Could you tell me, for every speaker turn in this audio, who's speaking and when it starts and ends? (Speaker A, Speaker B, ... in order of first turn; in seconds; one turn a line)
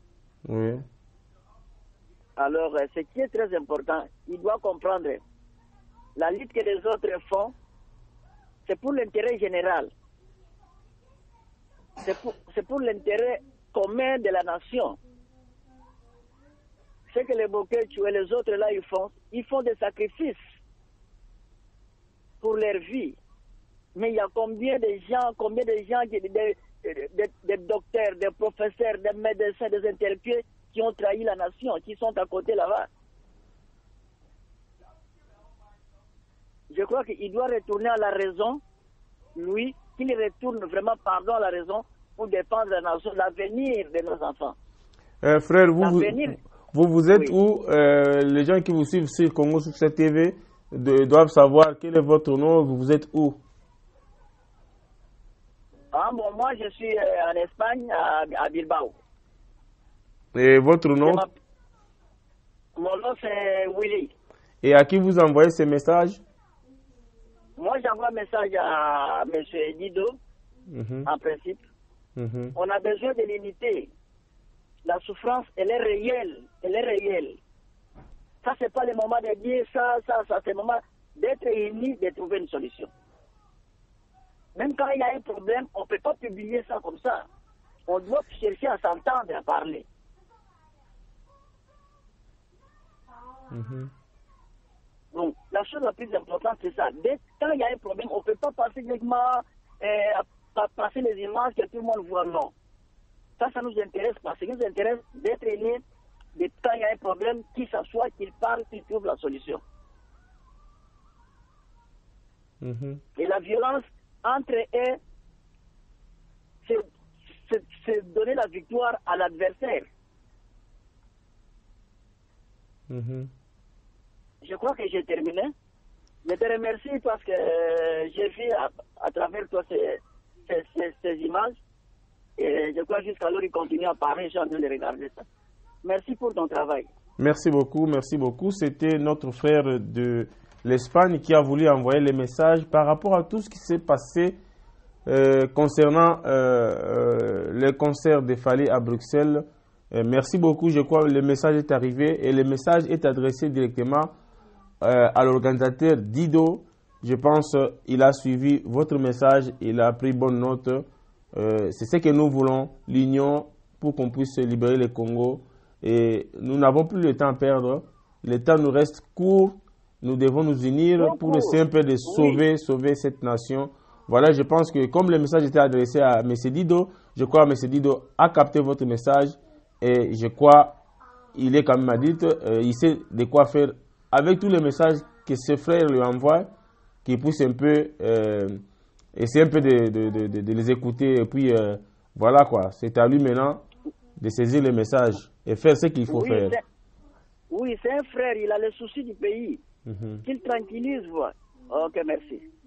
Speaker A: 0.4-0.8
Speaker B: 2.4-5.2
Speaker B: 6.2-7.5
Speaker B: 8.6-9.9
Speaker B: 12.0-15.0
Speaker B: 17.1-20.4
Speaker B: 22.4-23.2
Speaker B: 23.9-32.9
Speaker B: 36.7-38.6
Speaker B: 39.4-44.5
Speaker A: 45.2-53.4
Speaker B: 45.8-46.4
Speaker B: 55.9-59.0
Speaker A: 60.3-61.2
Speaker B: 61.0-61.3
Speaker B: 62.8-64.1
Speaker A: 64.6-66.2
Speaker B: 67.6-70.2
Speaker A: 70.7-71.1
Speaker B: 71.0-71.7
Speaker A: 72.2-72.5
Speaker B: 72.5-73.9
Speaker B: 74.8-77.4
Speaker B: 78.4-82.9
Speaker B: 84.5-87.3
Speaker B: 87.9-89.8
Speaker A: 93.5-93.9
Speaker B: 95.1-102.5
Speaker B: 103.4-105.8
Speaker B: 106.3-109.6
Speaker A: 112.6-113.0
Speaker B: 113.2-115.0
Speaker B: 116.6-119.9
Speaker A: 122.9-123.3
Speaker B: 124.4-125.5
Speaker B: 126.2-131.6
Speaker B: 132.4-135.2
Speaker B: 135.8-136.9
Speaker A: 137.2-144.4
Speaker A: 145.1-154.1
Speaker A: 154.8-180.8
Speaker B: 171.0-172.4
Speaker A: 181.3-186.5
Speaker A: 187.0-188.6
Speaker A: 189.2-193.6
Speaker A: 194.2-196.6
Speaker B: 196.1-196.6
Speaker B: 197.5-199.6
Speaker A: 199.8-200.2
Speaker B: 200.2-202.4